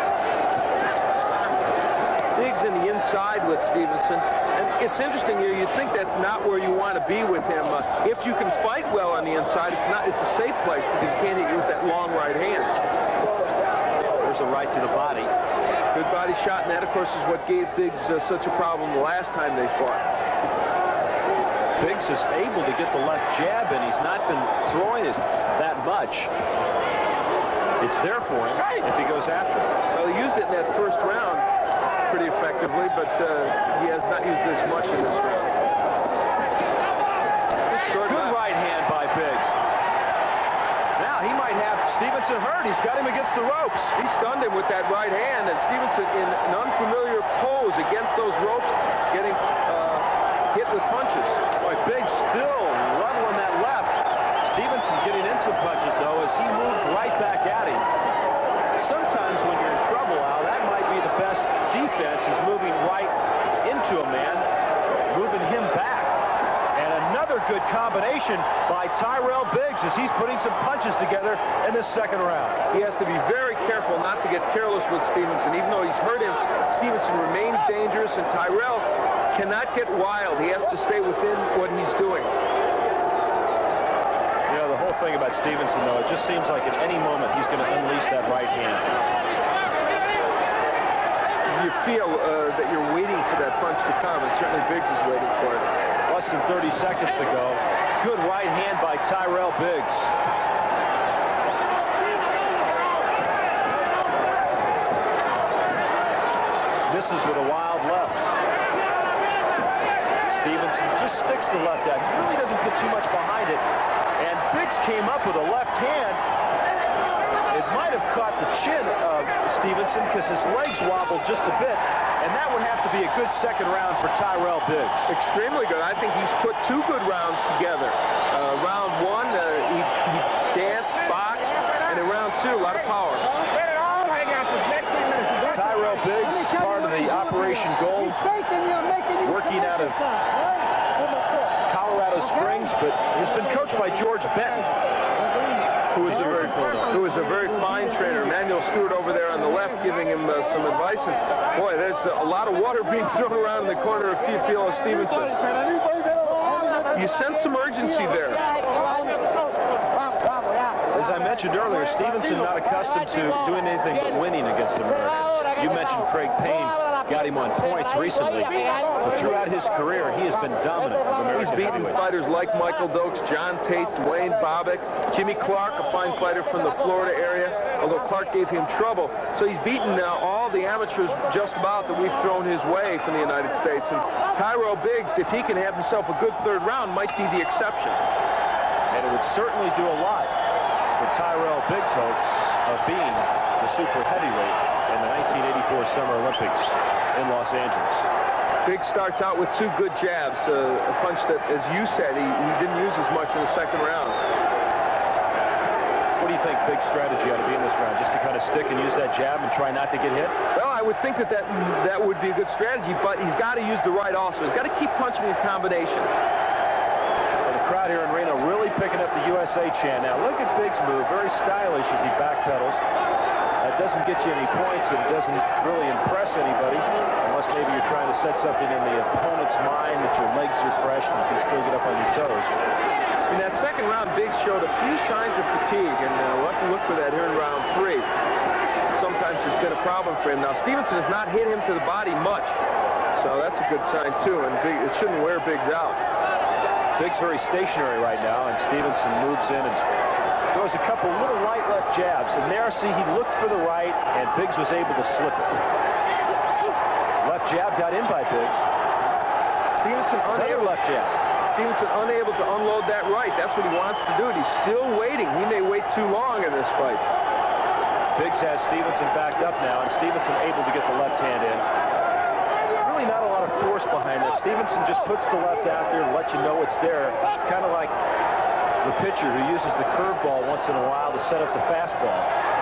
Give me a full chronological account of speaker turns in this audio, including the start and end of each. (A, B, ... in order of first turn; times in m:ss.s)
0:02.4-0:12.8 A
0:14.1-0:15.3 B
0:15.9-0:20.1 A
0:21.8-0:26.3 B
0:27.8-0:29.7 B
0:29.9-0:31.5 A
0:32.1-0:35.6 A
0:37.7-0:38.4 A
0:38.0-0:39.5 B
0:41.0-0:44.0 B
0:44.0-0:51.4 A
0:51.6-0:57.9 B
0:58.8-1:04.5 B
1:05.1-1:06.1 B
1:06.8-1:12.6 B
1:12.7-1:22.3 A
1:24.5-1:28.9 B
1:31.5-1:35.7 A
1:36.1-1:40.1 B
1:46.9-1:48.3 B
1:50.3-1:53.6 B
1:54.2-1:56.2 B
1:57.5-2:05.1 B
2:05.1-2:13.3 A
2:15.5-2:18.2 B
2:19.2-2:20.0 B
2:21.7-2:24.7 B
2:25.9-2:27.0 B
2:26.0-2:35.3 A
2:36.9-2:38.4 A
2:40.9-2:52.1 B
2:51.3-3:08.0 A
3:08.9-3:10.3 B
3:11.0-3:18.1 B
3:18.6-3:24.2 A
3:26.2-3:30.4 B
3:30.5-3:36.1 A
3:37.4-3:42.8 B
3:43.6-3:52.5 B
3:53.3-3:58.1 A
3:58.9-4:02.6 A
4:03.2-4:06.0 A
4:07.0-4:09.8 B
4:10.5-4:15.6 B
4:17.2-4:18.6 B
4:19.8-4:20.8 A
4:20.3-4:21.1 B
4:21.5-4:27.0 A
4:28.2-4:31.6 B
4:32.8-4:37.9 B
4:38.8-4:42.3 B